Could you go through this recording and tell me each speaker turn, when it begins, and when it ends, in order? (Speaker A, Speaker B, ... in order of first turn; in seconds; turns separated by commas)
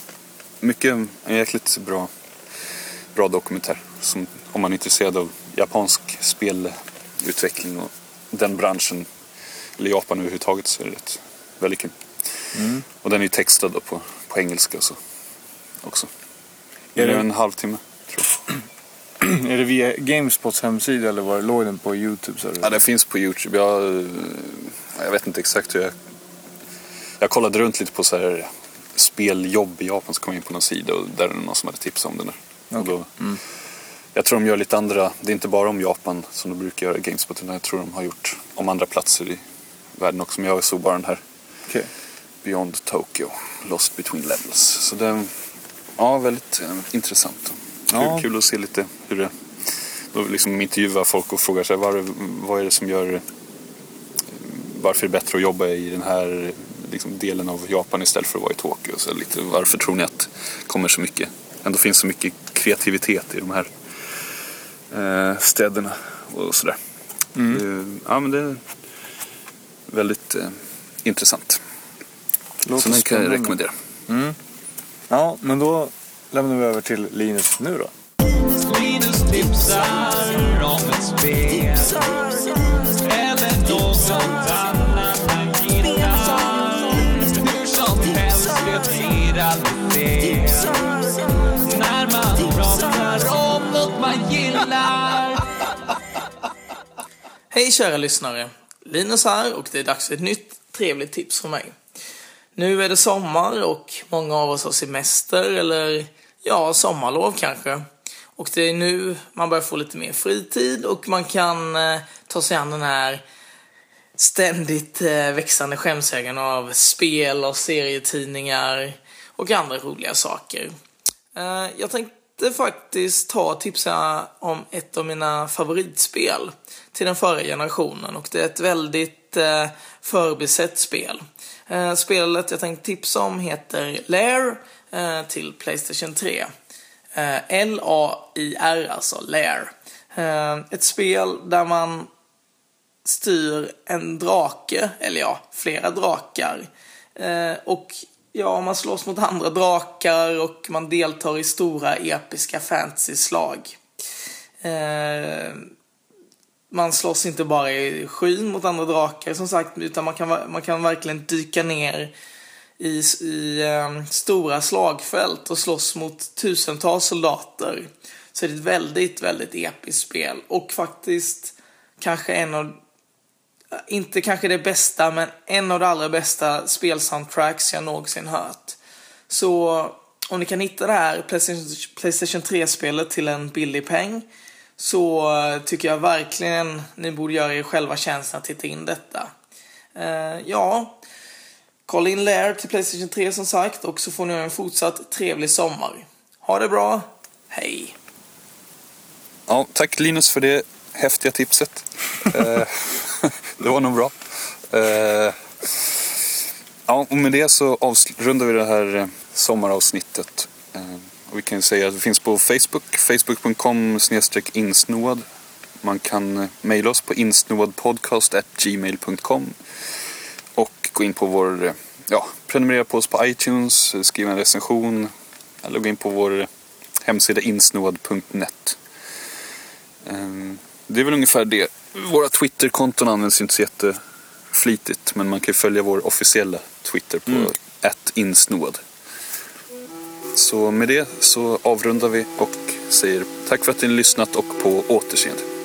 Speaker A: 0.6-2.1, Speaker A: 3.1-9.1, Speaker A: 9.8-11.9, Speaker B: 12.5-12.8, Speaker A: 12.9-15.0, Speaker A: 15.8-16.1, Speaker A: 16.9-18.4, Speaker B: 16.9-17.3, Speaker B: 19.2-22.8, Speaker A: 22.6-25.9, Speaker A: 27.2-33.1, Speaker B: 32.7-33.4, Speaker A: 34.1-39.4, Speaker A: 40.0-41.2, Speaker A: 42.4-45.3, Speaker A: 46.0-53.2, Speaker B: 47.9-48.2, Speaker A: 54.3-64.2, Speaker A: 64.9-66.8, Speaker B: 67.3-67.6, Speaker A: 67.4-68.7, Speaker A: 69.9-71.6, Speaker B: 72.6-73.6, Speaker A: 72.7-73.7, Speaker B: 74.1-74.3, Speaker B: 75.1-77.9, Speaker C: 78.5-95.4, Speaker D: 97.5-101.8, Speaker D: 102.5-107.8, Speaker D: 108.3-113.2, Speaker D: 114.2-120.7, Speaker D: 121.3-136.5, Speaker D: 137.1-142.1, Speaker D: 143.0-153.8, Speaker D: 154.6-155.7, Speaker D: 156.7-162.1, Speaker D: 162.8-172.8, Speaker D: 173.9-178.8, Speaker D: 179.3-184.2, Speaker D: 184.8-189.3, Speaker D: 189.9-191.0, Speaker D: 191.8-197.9, Speaker A: 199.5-204.2, Speaker A: 204.7-206.2, Speaker A: 206.9-215.2, Speaker A: 215.8-219.6, Speaker A: 220.5-226.5, Speaker A: 227.0-228.8, Speaker A: 230.0-234.0, Speaker A: 234.5-238.8, Speaker A: 240.3-245.4